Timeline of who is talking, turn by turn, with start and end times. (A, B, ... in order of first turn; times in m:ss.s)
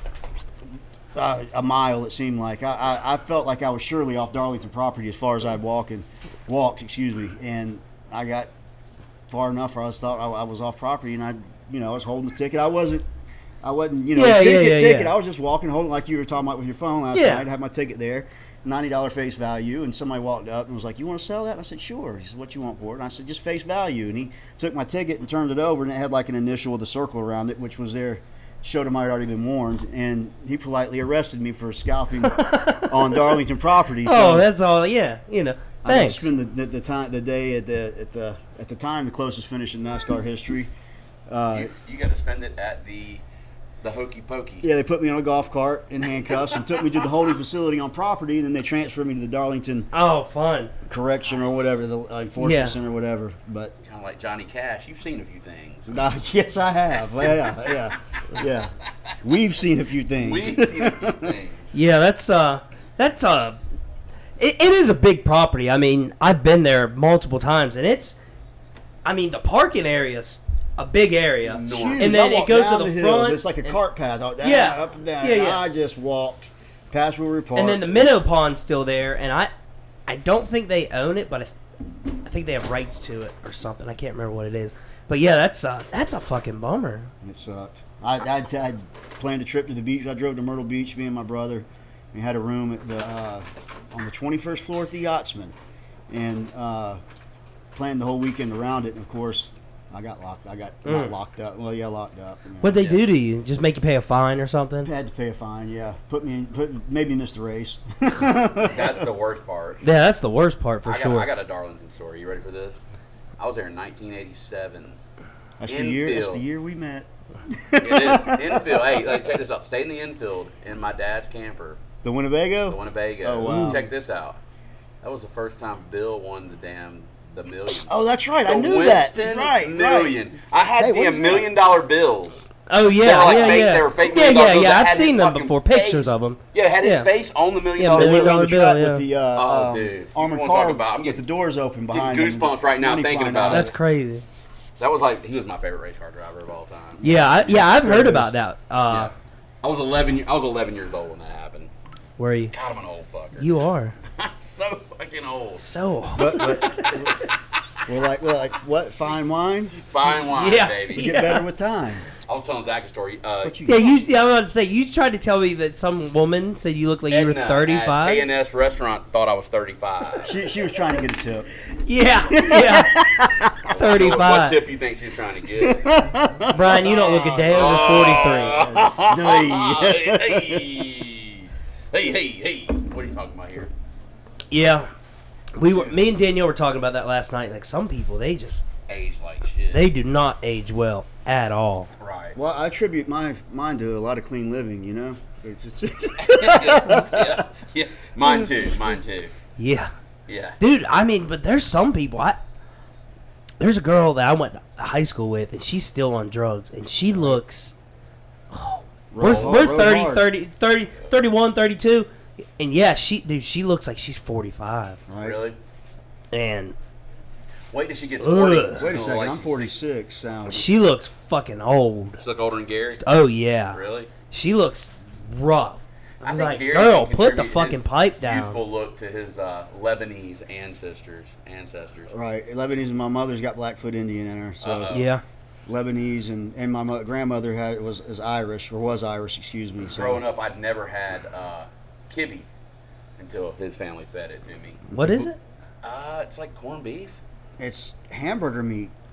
0:01.1-0:08.5 A
0:09.3-0:13.0 A
0:13.6-0:34.5 A
0:14.1-0:15.1 B
0:17.1-0:17.4 B
0:32.3-0:33.3 B
0:34.0-0:36.3 B
0:35.8-0:40.7 A
0:41.3-0:41.7 A
0:41.5-0:43.2 C
0:43.8-0:44.7 C
0:44.6-0:49.9 A
0:49.9-0:50.7 B
0:50.8-0:53.7 A
0:52.4-0:52.8 B
0:53.8-0:55.9 C
0:55.9-1:01.4 A
1:00.2-1:01.7 C
1:01.7-1:03.6 B
1:04.4-1:08.2 B
1:09.0-1:13.4 B
1:11.4-1:12.2 C
1:11.6-1:18.1 A
1:14.4-1:15.6 B
1:17.5-1:19.5 B
1:20.1-1:21.5 B
1:22.2-1:27.1 B
1:27.2-1:35.6 A
1:36.1-1:37.0 A
1:37.7-1:42.9 A
1:40.8-1:41.1 B
1:42.6-1:44.9 B
1:42.8-1:43.0 C
1:44.8-1:49.0 A
1:48.6-1:49.8 C
1:49.8-1:51.3 B
1:50.8-1:52.8 C
1:53.4-1:55.0 C
1:55.6-1:59.3 A
1:55.7-1:56.4 C
1:57.8-2:01.8 C
2:02.0-2:03.9 A
2:02.7-2:04.4 C
2:03.4-2:03.8 B
2:05.0-2:07.9 C
2:07.7-2:10.2 A
2:08.4-2:18.4 C
2:10.8-2:11.5 A
2:12.7-2:17.1 B
2:17.8-2:19.1 B
2:17.9-2:23.7 A
2:19.3-2:21.2 C
2:21.9-2:23.7 C
2:23.5-2:24.2 B
2:24.8-2:27.6 C
2:27.0-2:29.1 B
2:27.0-2:28.3 A
2:28.9-2:31.7 C
2:32.2-2:32.5 B
2:32.5-2:33.6 C
2:33.4-2:34.0 B
2:34.2-2:35.7 C
2:35.6-2:37.2 B
2:36.1-2:37.2 A
2:36.3-2:37.3 C
2:37.8-2:39.8 A
2:39.9-2:41.2 C
2:40.2-2:41.4 B
2:40.9-2:42.0 A
2:42.2-2:43.6 C
2:43.4-2:43.9 A
2:43.6-2:48.2 B
2:47.1-2:50.4 C
2:50.2-2:51.5 A
2:51.9-2:53.1 B
2:52.3-2:53.6 A
2:53.6-2:55.9 C
2:53.7-2:54.6 B
2:55.6-3:00.8 A
2:56.5-2:58.6 B
2:56.7-3:03.7 C
3:04.5-3:04.9 B
3:05.6-3:08.7 B
3:08.9-3:09.8 C
3:09.7-3:11.9 B
3:12.0-3:12.4 C
3:12.3-3:17.5 A
3:16.2-3:19.3 C
3:18.2-3:18.5 A
3:19.6-3:19.9 B
3:20.3-3:20.6 C
3:20.6-3:22.4 B
3:23.6-3:27.7 B
3:28.5-3:35.0 B
3:29.1-3:30.3 A
3:29.2-3:29.6 C
3:35.1-3:35.4 A
3:35.2-3:35.6 C
3:36.3-3:36.8 B
3:37.7-3:39.7 C
3:38.2-3:38.9 B
3:38.8-3:40.7 A
3:40.5-3:42.2 B
3:42.2-3:43.1 C
3:43.0-3:48.6 B
3:43.7-3:44.1 C
3:46.2-3:52.1 C
3:52.1-3:54.9 A
3:54.6-3:55.1 C
3:54.9-3:55.2 B
3:55.7-4:00.2 A
3:59.9-4:02.5 C
4:03.2-4:04.9 C
4:04.9-4:05.2 A
4:04.9-4:05.4 B
4:05.8-4:07.2 C
4:07.6-4:08.9 A